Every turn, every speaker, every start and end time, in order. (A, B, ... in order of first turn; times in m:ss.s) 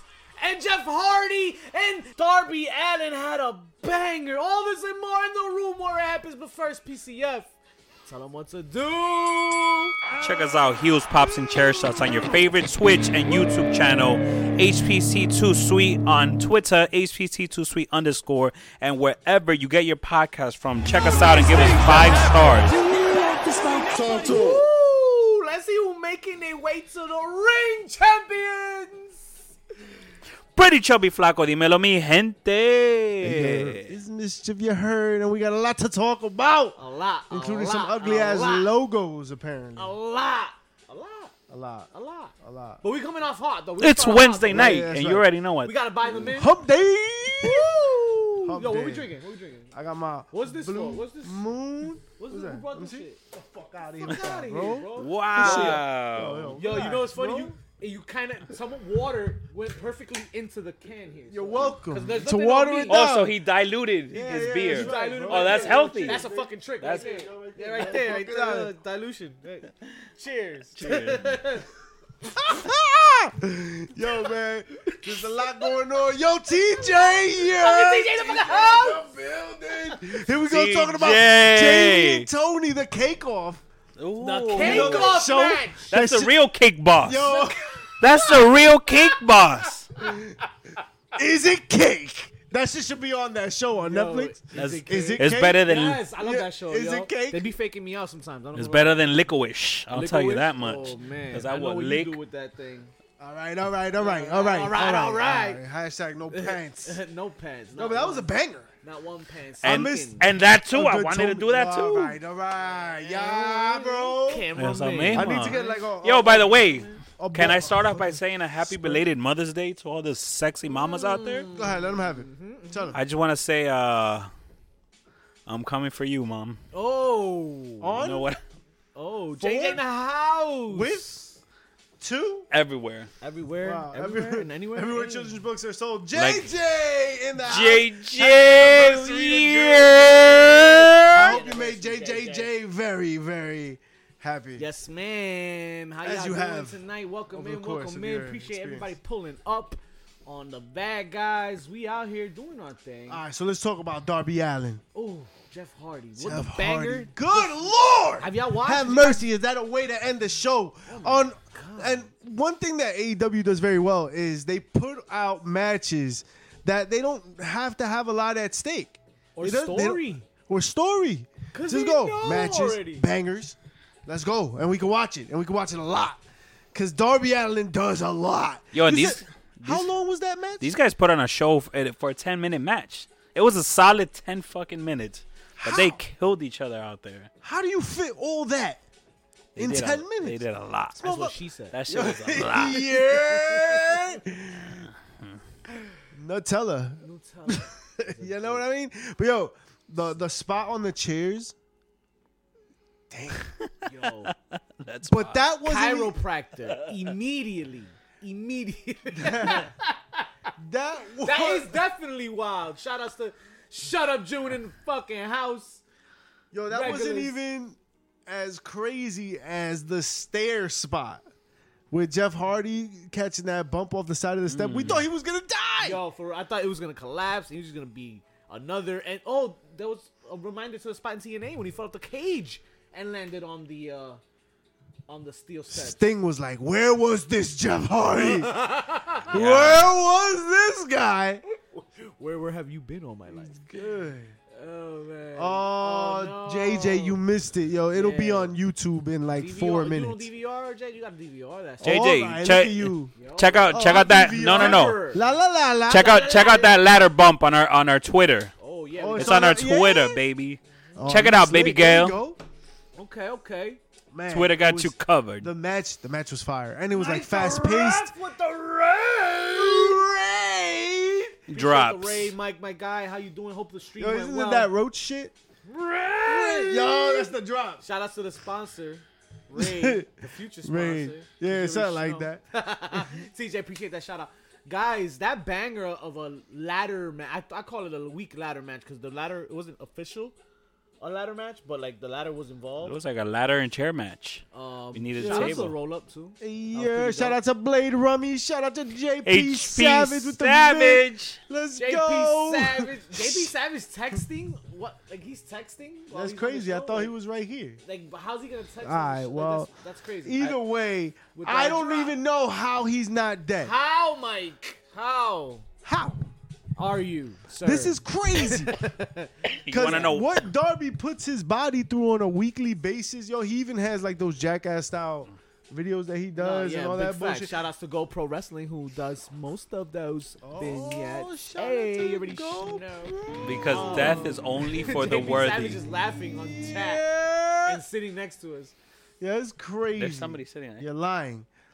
0:00.4-0:07.5 A
0:08.0-0:10.0 A
0:10.2-0:10.5 B
0:10.2-0:22.8 C
0:11.3-0:12.2 B
0:21.3-0:29.4 A
0:30.5-0:33.9 C
0:33.2-0:36.8 B
0:36.8-0:38.7 A
0:37.3-0:39.9 B
0:39.8-0:41.3 A
0:41.5-0:42.8 B
0:41.9-0:44.9 A
0:43.8-0:45.8 C
0:44.5-0:45.3 B
0:45.6-0:46.6 A
0:46.1-0:47.8 B
0:47.4-0:49.7 A
0:48.4-0:49.1 B
0:49.7-0:57.5 B
0:50.3-0:51.5 A
0:52.2-0:53.2 A
0:54.0-0:55.8 A
0:54.9-0:56.6 C
0:56.6-1:03.0 A
1:01.3-1:03.4 B
1:02.9-1:06.3 C
1:04.1-1:08.7 B
1:04.6-1:11.7 A
1:06.8-1:07.1 C
1:10.8-1:11.4 C
1:12.2-1:23.6 B
1:14.9-1:15.7 A
1:16.6-1:19.1 A
1:20.4-1:22.3 C
1:24.0-1:25.2 C
1:24.2-1:25.9 A
1:24.6-1:26.3 B
1:25.9-1:27.4 C
1:27.0-1:27.8 B
1:27.2-1:30.2 A
1:28.0-1:29.9 C
1:30.0-1:30.4 B
1:31.1-1:37.5 B
1:33.8-1:39.0 A
1:34.5-1:36.0 C
1:38.5-1:42.2 C
1:39.9-1:42.9 A
1:43.2-1:47.0 B
1:44.0-1:45.6 A
1:46.3-1:48.3 A
1:47.7-1:48.7 B
1:48.8-1:50.2 A
1:49.6-1:54.5 B
1:49.6-1:52.2 C
1:52.6-1:55.9 A
1:54.5-2:01.5 C
1:55.1-1:59.1 B
1:56.6-1:57.0 A
2:00.7-2:03.0 A
2:01.5-2:03.0 B
2:02.9-2:04.3 C
2:05.5-2:06.6 C
2:06.7-2:08.0 A
2:07.8-2:08.3 B
2:08.0-2:08.4 C
2:08.9-2:11.1 A
2:09.4-2:09.8 B
2:10.7-2:11.4 B
2:12.0-2:12.5 B
2:12.5-2:13.1 C
2:13.2-2:15.3 A
2:13.6-2:24.6 B
2:16.1-2:16.5 C
2:17.4-2:21.4 C
2:21.1-2:22.5 A
2:24.6-2:33.2 A
2:26.0-2:26.8 B
2:27.3-2:28.9 B
2:33.1-2:34.8 B
2:34.9-2:39.2 A
2:36.2-2:56.2 B
2:40.9-2:42.1 A
2:49.4-2:50.3 A
2:51.5-2:53.1 A
2:56.7-3:00.7 B
2:58.7-2:59.9 C
3:00.6-3:07.3 C
3:05.6-3:06.0 B
3:07.4-3:08.8 B
3:09.6-3:10.4 B
3:09.6-3:11.0 C
3:10.9-3:11.4 B
3:11.0-3:11.8 A
3:11.7-3:12.8 C
3:11.9-3:14.9 B
3:13.0-3:14.1 A
3:14.9-3:15.4 C
3:16.1-3:21.5 B
3:17.0-3:18.6 A
3:23.1-3:23.5 B
3:23.4-3:23.7 C
3:23.8-3:24.3 A
3:24.2-3:25.4 C
3:25.1-3:26.2 B
3:25.6-3:30.3 A
3:26.7-3:27.1 C
3:29.1-3:29.7 B
3:30.6-3:31.8 B
3:31.2-3:35.8 A
3:36.5-3:41.2 B
3:36.7-3:37.3 A
3:41.9-3:46.0 B
3:44.5-3:45.0 C
3:45.8-3:54.2 A
3:55.1-3:56.0 A
3:55.7-3:58.6 B
3:58.1-3:59.3 A
3:59.3-4:01.4 B
3:59.3-3:59.9 C
4:01.7-4:03.6 A
4:03.3-4:04.4 B
4:04.5-4:07.2 A
4:05.3-4:10.3 B
4:07.9-4:08.5 A
4:09.3-4:12.0 A
4:11.8-4:13.1 B
4:11.8-4:15.0 C
4:13.2-4:15.4 A
4:13.7-4:16.1 B
4:15.9-4:18.5 C
4:15.9-4:16.8 A
4:18.6-4:19.6 A
4:19.0-4:20.2 B
4:19.2-4:22.2 C
4:21.0-4:22.4 B
4:23.0-4:23.8 A
4:24.1-4:28.1 B
4:24.3-4:25.5 C
4:26.9-4:30.0 A
4:29.5-4:31.5 B
4:31.5-4:32.3 C
4:31.5-4:34.7 A
4:34.0-4:35.3 B
4:35.6-4:50.3 A
4:36.2-4:37.8 B
4:39.5-4:43.1 B
4:51.0-4:53.0 A
4:52.8-4:55.7 C
4:54.5-4:57.4 A
4:55.2-4:55.7 B
4:56.4-5:03.5 B
4:59.2-5:01.4 C
5:01.8-5:07.1 A
5:06.1-5:07.8 B
5:07.8-5:10.6 A
5:08.8-5:13.7 B
5:11.3-5:12.2 A
5:13.6-5:15.6 A
5:15.8-5:16.3 B
5:16.8-5:20.2 A
5:17.6-5:18.8 B
5:19.6-5:20.4 C
5:19.7-5:27.5 B
5:26.4-5:37.1 A
5:30.4-5:34.4 B
5:33.4-5:35.8 C
5:36.3-5:37.8 B
5:37.6-5:38.7 A
5:39.2-5:41.5 B
5:40.0-5:40.9 C